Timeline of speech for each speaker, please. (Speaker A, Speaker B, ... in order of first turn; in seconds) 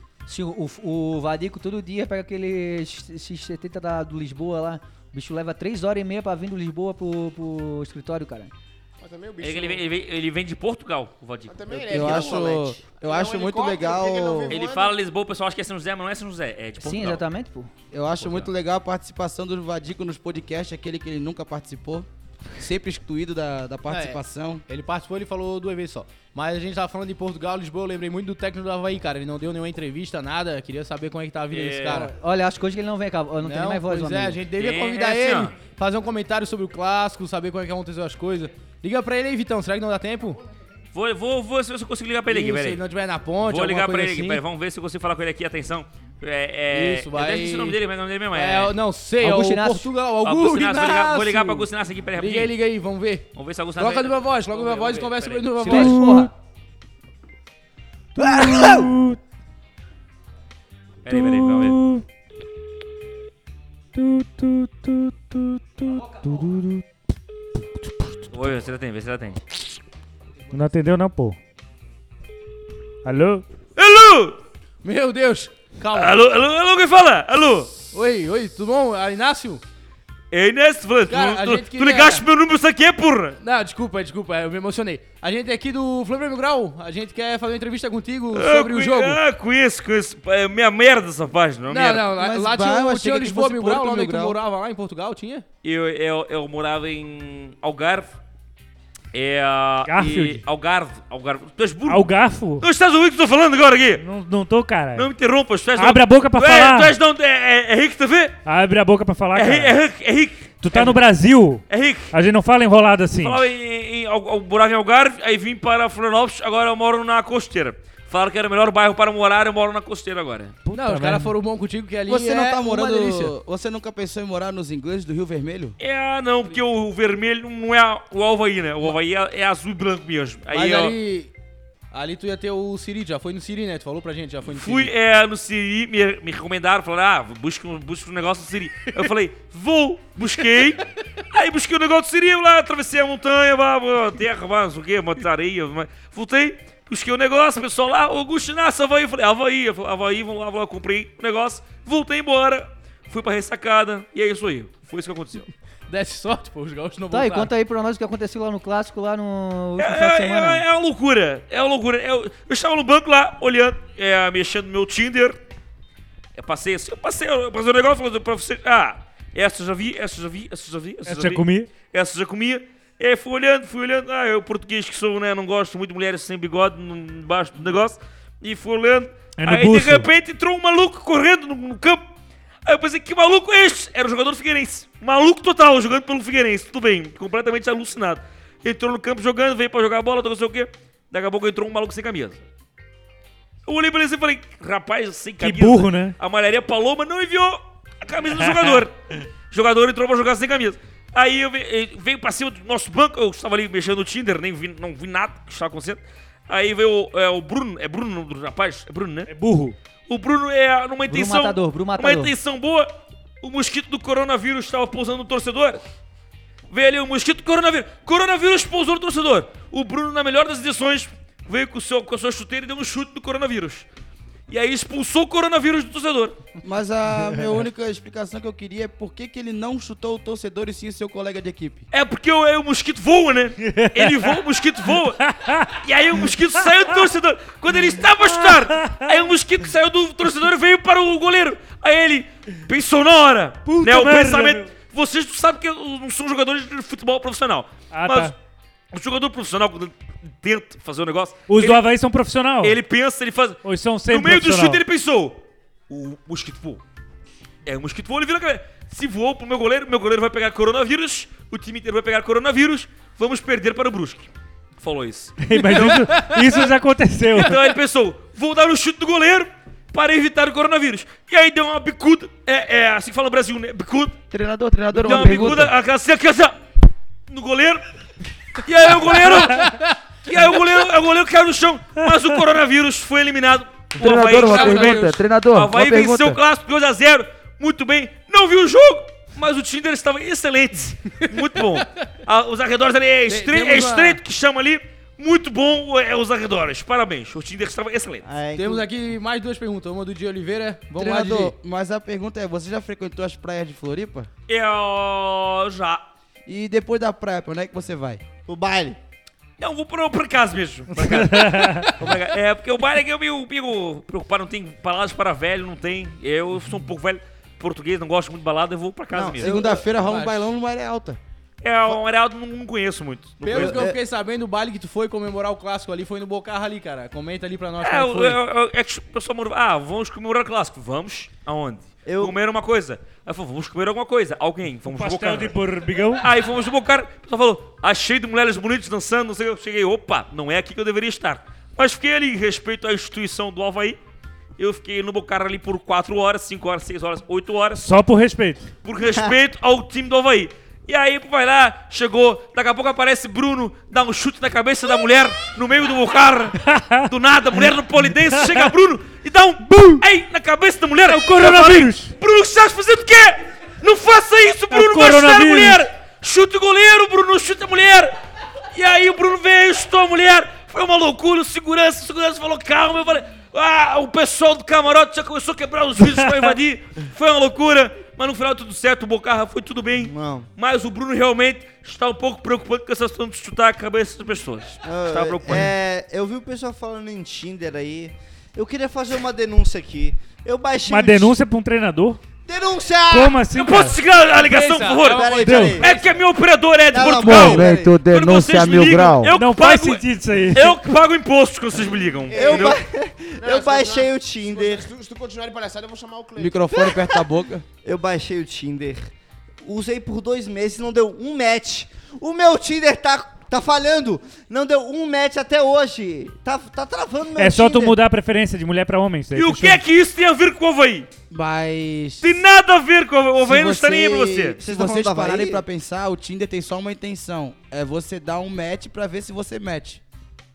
Speaker A: 0.2-8.5, 16.8-17.7, 31.9-34.4, 49.2-49.9, 55.6-56.3, 58.2-58.9, 157.1-160.6, 211.1-212.3
Speaker B: 9.0-9.8, 11.5-14.9, 402.3-402.8, 403.4-406.6
Speaker C: 9.4-11.9, 14.5-17.2, 18.2-18.5, 31.5-32.1, 34.6-35.5, 40.9-42.8, 43.4-48.8, 50.2-52.5, 53.3-56.0, 61.0-61.8, 68.3-69.4, 73.8-74.4, 75.9-77.8, 80.3-83.4, 88.3-92.1, 95.6-98.1, 99.1-102.1, 102.6-104.0, 105.0-108.4, 109.3-111.0, 111.7-112.1, 113.2-120.6, 125.8-131.0, 134.4-155.5, 159.8-165.4, 166.3-182.0, 182.7-192.4, 193.7-198.9, 199.5-209.3, 210.1-212.9, 213.4-215.8, 216.7-223.8, 224.5-226.4, 231.9-235.2, 235.7-248.3, 248.9-251.8, 252.6-256.8, 257.6-266.3, 267.4-274.2, 274.9-276.6, 277.3-277.8, 278.6-298.2, 304.5-306.1, 309.6-319.6, 321.6-323.9, 327.8-335.6, 336.2-344.0, 344.6-347.9, 348.8-368.1, 368.7-385.7, 393.5-402.8, 419.3-421.1, 422.2-424.6
Speaker D: 11.9-14.6, 17.9-24.6, 92.1-94.4, 122.1-125.8, 226.6-231.8, 274.3-275.7, 283.9-286.4, 300.9-304.3, 306.4-308.2, 319.4-321.2, 397.1-399.4, 406.4-407.6, 421.3-422.4, 423.4-430.0
Speaker E: 11.9-12.7, 298.2-298.9, 308.5-309.0, 319.1-319.8, 323.5-324.0, 332.0-332.3, 379.9-380.5, 384.8-391.4, 392.4-393.4, 395.1-396.0, 396.9-397.9, 402.3-404.9, 406.7-407.2, 407.8-418.0, 424.6-425.6
Speaker F: 23.9-32.1, 33.4-40.4, 42.3-44.4, 46.7-47.8, 48.3-56.3, 74.8-76.2, 77.9-79.6, 81.1-82.2, 83.4-89.2, 91.7-95.4, 120.7-123.3, 130.5-131.3, 131.9-134.9, 155.9-157.5, 265.6-266.6, 279.1-279.9, 284.4-285.1, 291.6-291.8, 293.3-294.2, 298.5-301.5, 319.9-320.5, 323.4-328.4, 394.4-396.0
Speaker G: 55.7-56.2, 58.2-59.2, 61.1-62.0, 63.9-66.8, 67.8-68.2, 70.5-71.4, 73.0-73.4, 99.9-100.4, 101.9-102.6, 104.0-105.1, 105.8-106.9, 108.4-109.7, 110.6-113.4, 120.7-121.3, 171.1-171.7, 179.4-180.1, 195.4-196.2, 198.3-198.8, 209.3-209.8, 233.6-234.3, 235.2-235.7, 238.2-239.2, 243.7-244.7, 247.9-248.3, 251.5-252.8, 253.6-254.8, 265.4-267.6, 311.0-311.9, 334.9-336.3, 347.8-348.7, 356.6-358.7, 359.7-360.0, 361.0-362.1, 364.7-365.8, 376.0-376.4, 390.9-392.2, 393.1-393.9, 395.4-395.8, 399.3-400.8, 417.4-419.8